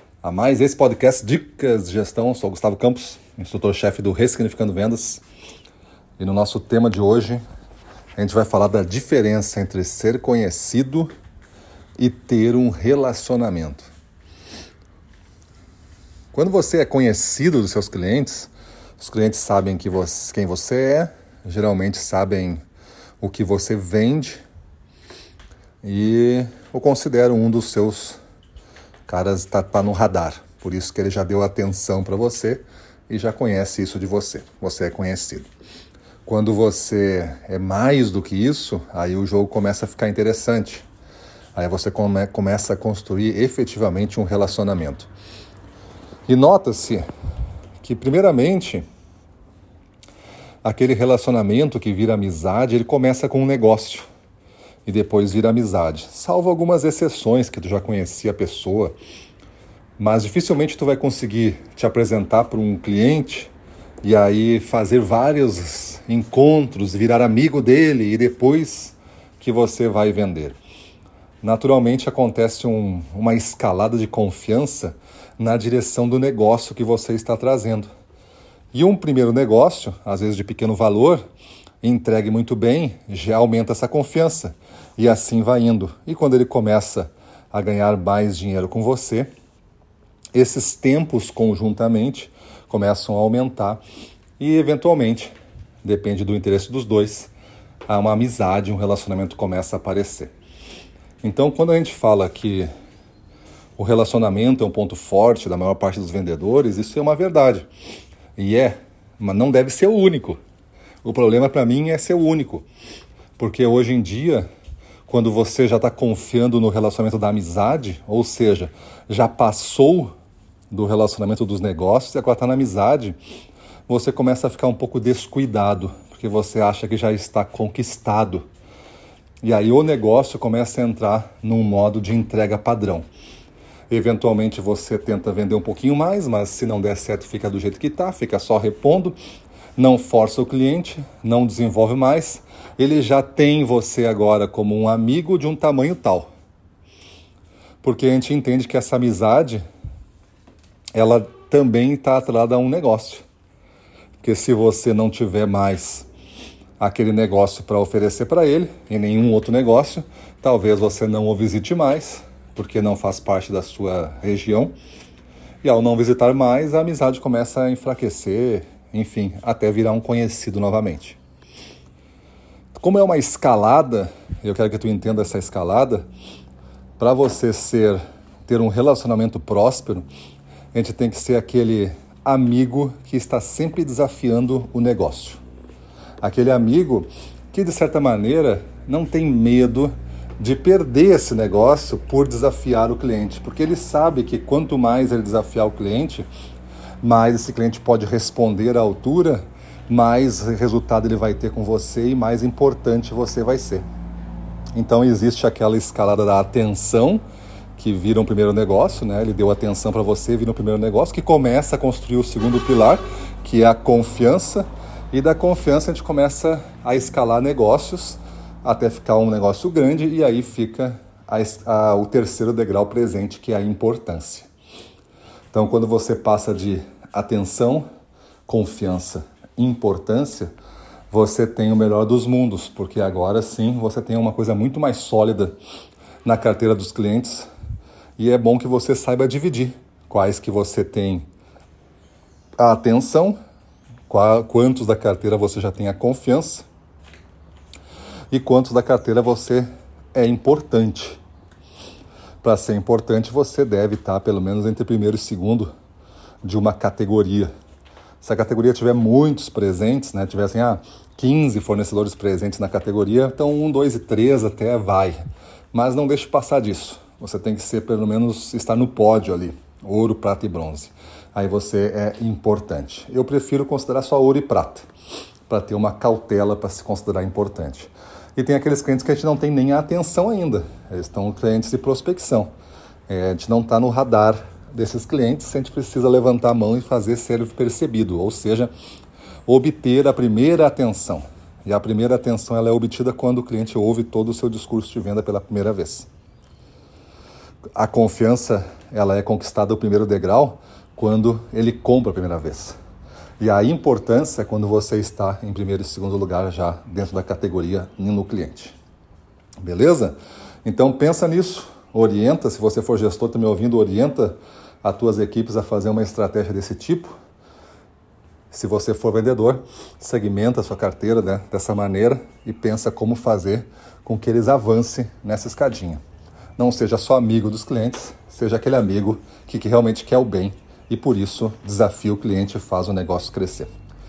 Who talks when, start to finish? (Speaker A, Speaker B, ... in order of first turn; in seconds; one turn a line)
Speaker A: 0.2-5.2
Speaker A: 6.2-7.4
Speaker A: 8.2-11.1
Speaker A: 12.0-13.9
Speaker A: 16.3-22.6
Speaker A: 23.2-24.4
Speaker A: 25.8-28.2
Speaker A: 29.1-35.5
Speaker A: 36.2-40.9
Speaker A: 41.5-45.1
Speaker A: 46.3-47.0
Speaker A: 47.8-48.8
Speaker A: 50.6-54.1
Speaker A: 54.9-58.9
Speaker A: 60.0-63.5
Speaker A: 64.0-70.6
Speaker A: 71.4-77.9
Speaker A: 78.7-81.2
Speaker A: 81.8-89.3
Speaker A: 90.3-93.8
Speaker A: 94.4-97.3
Speaker A: 97.9-100.3
Speaker A: 101.2-102.7
Speaker A: 103.8-107.7
Speaker A: 108.4-110.4
Speaker A: 111.0-112.7
Speaker A: 113.4-114.5
Speaker A: 115.1-120.1
Speaker A: 120.7-123.2
Speaker A: 123.9-128.5
Speaker A: 129.4-133.1
Speaker A: 133.9-139.2
Speaker A: 139.8-146.3
Speaker A: 147.8-149.6
Speaker A: 150.9-153.2
Speaker A: 154.2-156.1
Speaker A: 156.8-164.7
Speaker A: 165.6-171.2
Speaker A: 172.7-176.1
Speaker A: 177.0-180.1
Speaker A: 180.7-185.4
Speaker A: 186.2-196.3
Speaker A: 197.0-203.8
Speaker A: 204.7-207.2
Speaker A: 207.8-224.5
Speaker A: 225.5-227.8
Speaker A: 228.5-230.5
Speaker A: 231.1-235.5
Speaker A: 236.2-237.5
Speaker A: 238.2-241.2
Speaker A: 242.6-243.4
Speaker A: 244.1-246.7
Speaker A: 248.3-251.2
Speaker A: 252.4-255.7
Speaker A: 256.4-257.5
Speaker A: 258.2-265.2
Speaker A: 265.7-274.9
Speaker A: 275.5-282.5
Speaker A: 283.1-288.7
Speaker A: 289.4-296.1
Speaker A: 297.8-302.8
Speaker A: 303.4-308.8
Speaker A: 309.6-317.1
Speaker A: 318.5-326.0
Speaker A: 326.6-333.7